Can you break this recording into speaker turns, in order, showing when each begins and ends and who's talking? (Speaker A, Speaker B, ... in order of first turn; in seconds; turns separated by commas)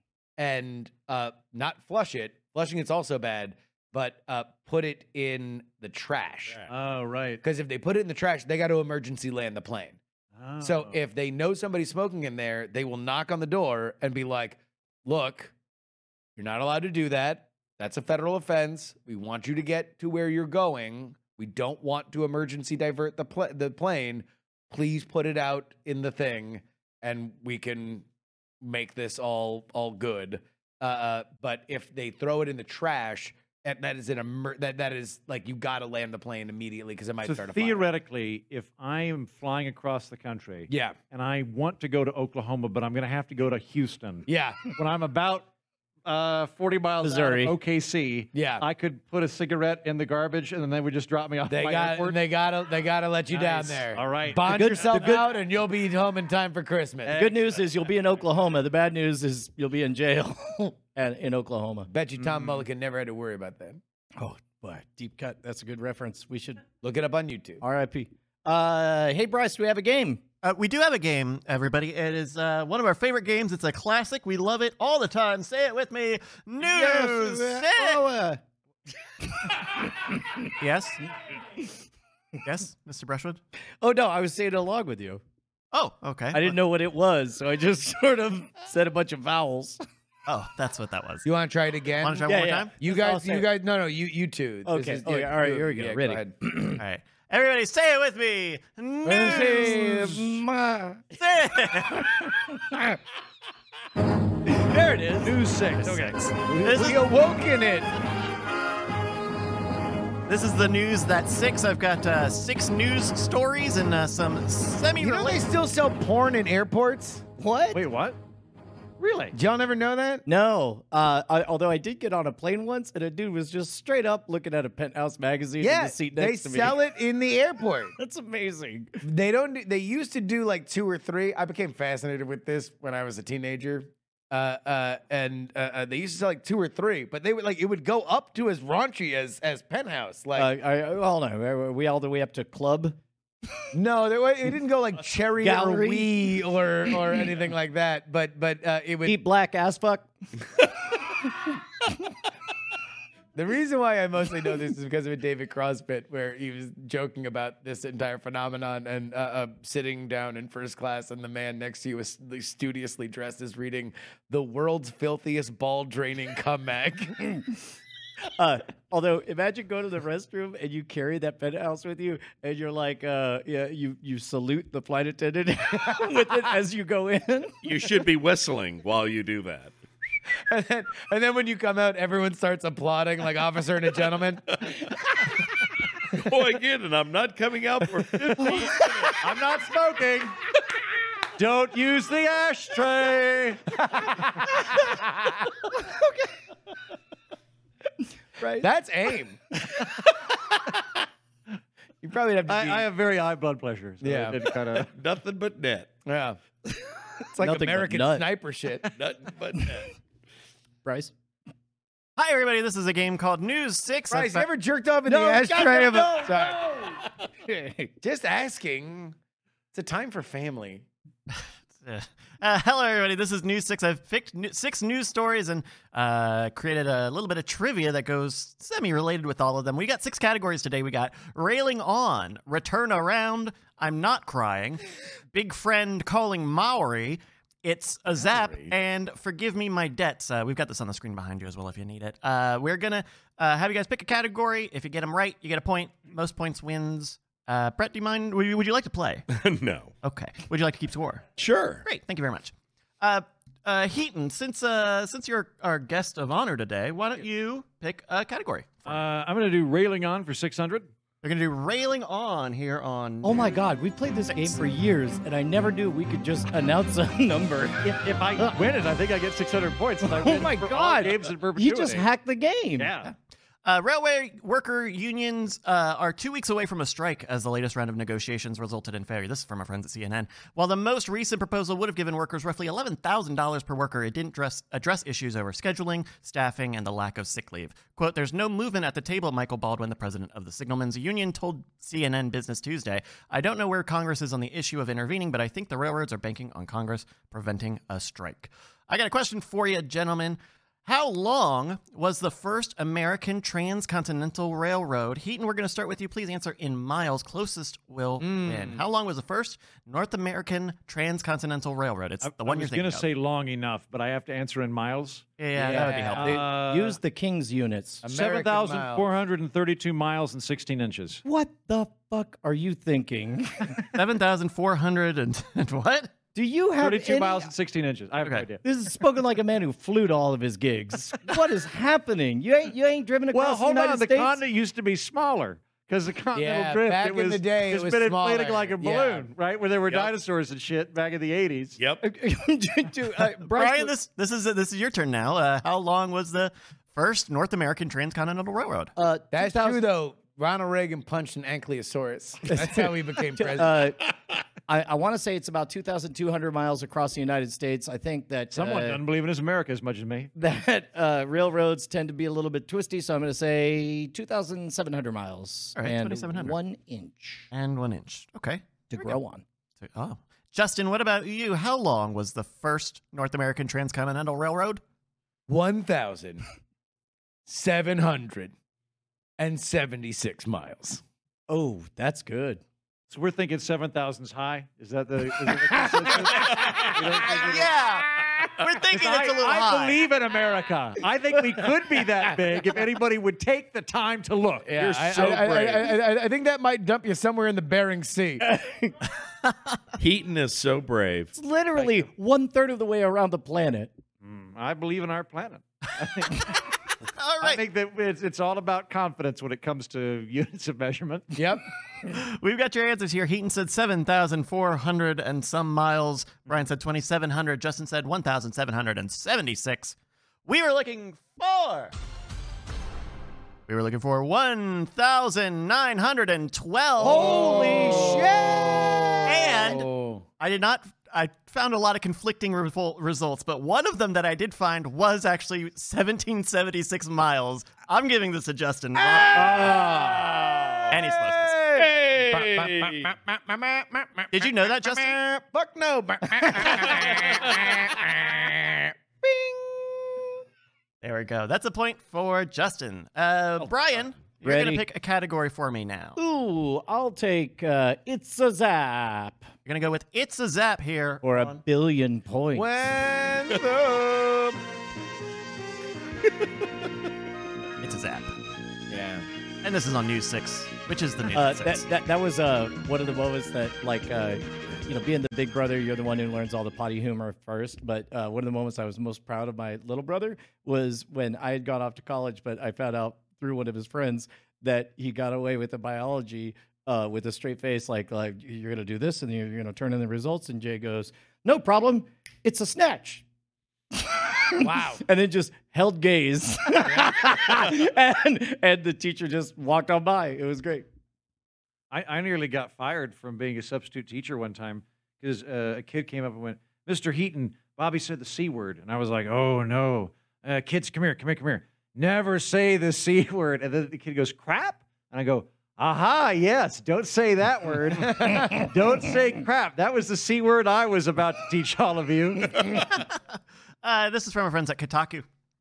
Speaker A: 0.4-6.7, Speaker B: 6.7-7.4, Speaker A: 7.4-10.0, Speaker B: 10.4-11.0, Speaker A: 10.6-15.5, Speaker A: 16.4-28.1, Speaker A: 28.6-37.9, Speaker B: 37.2-45.5, Speaker A: 40.7-41.0, Speaker A: 44.3-44.6, Speaker B: 46.0-52.2, Speaker C: 47.0-47.5, Speaker A: 48.3-48.6, Speaker A: 51.5-57.2, Speaker B: 53.3-55.2, Speaker C: 54.4-55.2, Speaker B: 57.0-57.9, Speaker C: 57.1-61.9, Speaker A: 61.9-63.8, Speaker B: 62.2-62.6, Speaker C: 64.2-66.6, Speaker A: 66.8-67.6, Speaker C: 67.6-70.2, Speaker D: 70.4-78.0, Speaker C: 76.6-78.4, Speaker D: 80.5-81.0, Speaker D: 82.4-83.4, Speaker C: 83.8-85.2, Speaker D: 85.7-86.5, Speaker C: 86.3-89.8, Speaker D: 90.3-91.3, Speaker A: 91.2-96.4, Speaker D: 92.0-92.7, Speaker C: 92.3-93.5, Speaker C: 94.7-96.8, Speaker D: 96.8-99.8, Speaker A: 99.0-100.3, Speaker C: 99.0-101.1, Speaker D: 101.2-102.3, Speaker C: 102.0-103.0, Speaker C: 104.5-105.4, Speaker B: 105.2-106.3, Speaker D: 105.8-107.0, Speaker C: 106.0-106.8, Speaker A: 106.5-107.9, Speaker D: 110.3-115.4, Speaker A: 115.0-117.2, Speaker C: 117.4-117.8, Speaker B: 117.7-118.2, Speaker B: 119.0-119.3, Speaker A: 119.3-120.2, Speaker C: 120.2-126.8, Speaker A: 125.6-128.0, Speaker C: 128.0-129.0, Speaker A: 129.0-140.5, Speaker C: 140.3-143.0, Speaker A: 143.7-149.2, Speaker C: 145.4-146.4, Speaker C: 149.1-150.1, Speaker A: 153.3-167.2, Speaker C: 168.3-177.5, Speaker E: 177.6-179.7, Speaker A: 180.4-184.6, Speaker E: 186.1-189.2, Speaker B: 189.2-190.4, Speaker B: 191.4-193.8, Speaker A: 194.8-195.4, Speaker C: 195.7-196.2, Speaker C: 198.4-198.7, Speaker A: 198.4-199.4, Speaker A: 202.0-202.9, Speaker B: 202.5-204.9, Speaker A: 204.0-204.4, Speaker E: 204.8-205.9, Speaker A: 206.0-206.4, Speaker A: 207.3-208.9, Speaker C: 207.4-208.2, Speaker E: 208.8-209.9, Speaker C: 210.8-211.1, Speaker D: 212.2-214.5, Speaker A: 214.1-216.8, Speaker C: 215.1-217.9, Speaker A: 218.0-219.1, Speaker A: 219.7-220.8, Speaker D: 221.3-249.2, Speaker E: 249.3-249.9, Speaker D: 250.0-251.2, Speaker E: 251.4-251.8, Speaker D: 251.8-259.0, Speaker B: 258.9-260.9, Speaker D: 261.2-263.5, Speaker C: 263.2-268.6, Speaker D: 264.3-264.6, Speaker B: 267.8-272.0, Speaker C: 270.1-272.9, Speaker B: 272.8-273.1, Speaker D: 273.0-313.0, Speaker A: 308.2-308.8, Speaker B: 312.2-317.0, Speaker D: 315.4-316.4, Speaker C: 315.6-318.0, Speaker A: 318.0-319.1, Speaker B: 318.1-321.2, Speaker C: 321.2-323.9, Speaker D: 323.9-326.1, Speaker C: 326.3-327.5, Speaker B: 326.8-328.6, Speaker C: 328.6-334.4, Speaker B: 333.3-341.8, Speaker A: 336.3-339.3, Speaker E: 341.8-342.0, Speaker C: 342.0-343.9, Speaker D: 343.4-348.9, Speaker C: 349.0-349.8, Speaker A: 349.3-353.8, Speaker C: 352.5-354.0, Speaker C: 354.7-359.0, Speaker B: 358.5-360.3, Speaker C: 360.4-367.5, Speaker D: 365.8-366.6, Speaker D: 367.5-369.2, Speaker C: 368.9-369.4, Speaker D: 369.8-374.8, Speaker A: 375.5-376.4, Speaker A: 377.4-378.5, Speaker A: 379.4-381.0, Speaker C: 381.5-382.6, Speaker B: 383.1-387.7, Speaker C: 385.8-386.1, Speaker D: 386.7-390.0, Speaker B: 388.9-395.9, Speaker A: 394.6-398.4, Speaker C: 398.4-398.9, Speaker E: 400.0-401.3, Speaker C: 401.3-403.9, Speaker B: 404.2-406.6, Speaker D: 407.1-407.6, Speaker B: 407.4-411.3, Speaker C: 411.3-411.6, Speaker D: 412.1-421.9, Speaker D: 423.7-427.6, Speaker A: 427.0-430.2, Speaker C: 427.0-429.3, Speaker D: 429.2-429.9, Speaker D: 430.4-439.8, Speaker A: 439.0-450.3, Speaker B: 439.6-440.0, Speaker D: 440.9-441.6, Speaker D: 444.3-445.1, Speaker D: 451.0-456.2, Speaker C: 454.4-454.8, Speaker C: 456.1-459.4, Speaker D: 459.6-461.6, Speaker C: 461.2-462.7, Speaker A: 462.5-464.6, Speaker D: 467.8-468.3, Speaker A: 468.9-469.2, Speaker D: 469.6-471.8, Speaker C: 471.3-493.2, Speaker C: 494.0-500.9, Speaker A: 494.6-495.0, Speaker B: 501.9-522.8, Speaker D: 522.8-523.2, Speaker D: 523.8-525.2